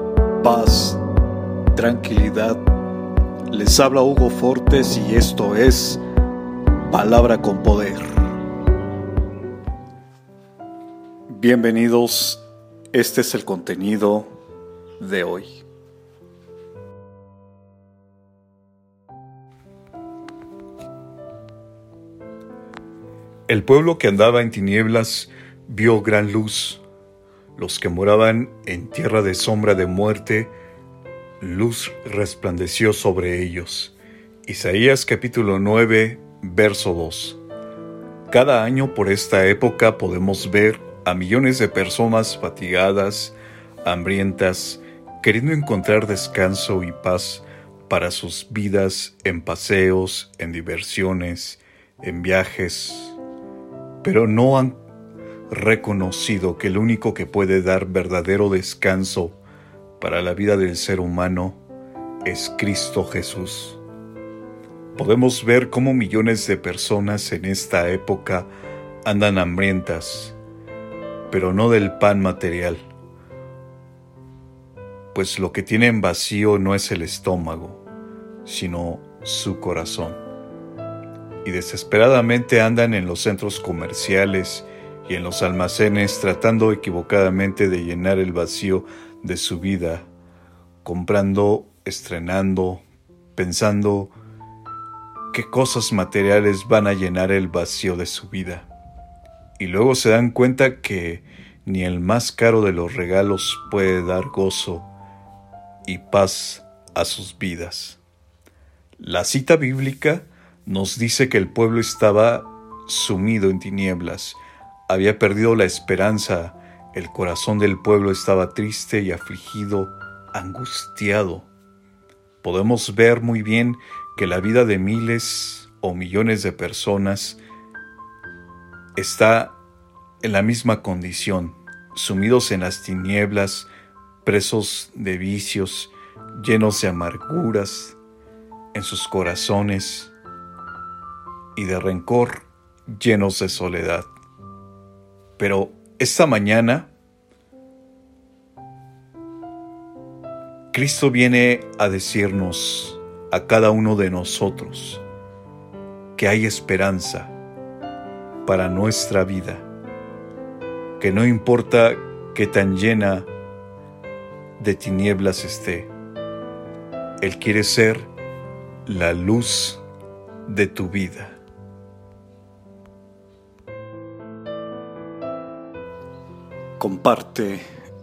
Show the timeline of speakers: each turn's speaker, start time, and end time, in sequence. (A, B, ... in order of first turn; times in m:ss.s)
0:00.4-0:01.0 A
0:01.7-0:02.6 A
0:03.5-0:06.0 A
0:06.9-0:08.1 A
0:11.3-0:12.4 A
0:12.9-0:14.3 A
0:15.0-0:15.6 A
0:23.5-0:26.8 A
0:27.6-0:30.5 A
0:31.4-0:33.9 A
0:34.5-0:37.4 A
0:38.3-0:53.2 A
0:54.0-0:54.8 A
0:55.5-0:59.4 A
1:00.0-1:01.6 A
1:02.2-1:03.8 A
1:05.0-1:08.5 A
1:09.0-1:10.4 A
1:11.3-1:12.8 A
1:15.1-1:17.8 A
1:18.4-1:20.2 A
1:21.4-1:30.1 A
1:30.8-1:32.8 A
1:33.4-1:34.1 A
1:35.3-1:38.7 A
1:39.6-1:44.9 A
1:45.9-1:48.0 A
1:49.0-2:01.5 A
2:02.4-2:07.4 A
2:09.0-2:09.6 A
2:10.2-2:13.7 A
2:14.2-2:18.0 A
2:18.7-2:20.1 A
2:21.6-2:24.1 A
2:25.4-2:26.9 A
2:30.7-2:35.0 A
2:36.2-2:37.3 A
2:38.4-2:39.7 A
2:41.0-2:43.3 A
2:44.6-2:45.9 A
2:47.2-2:48.1 A
2:48.9-2:49.8 A
2:50.5-2:51.4 A
2:56.8-2:57.6 A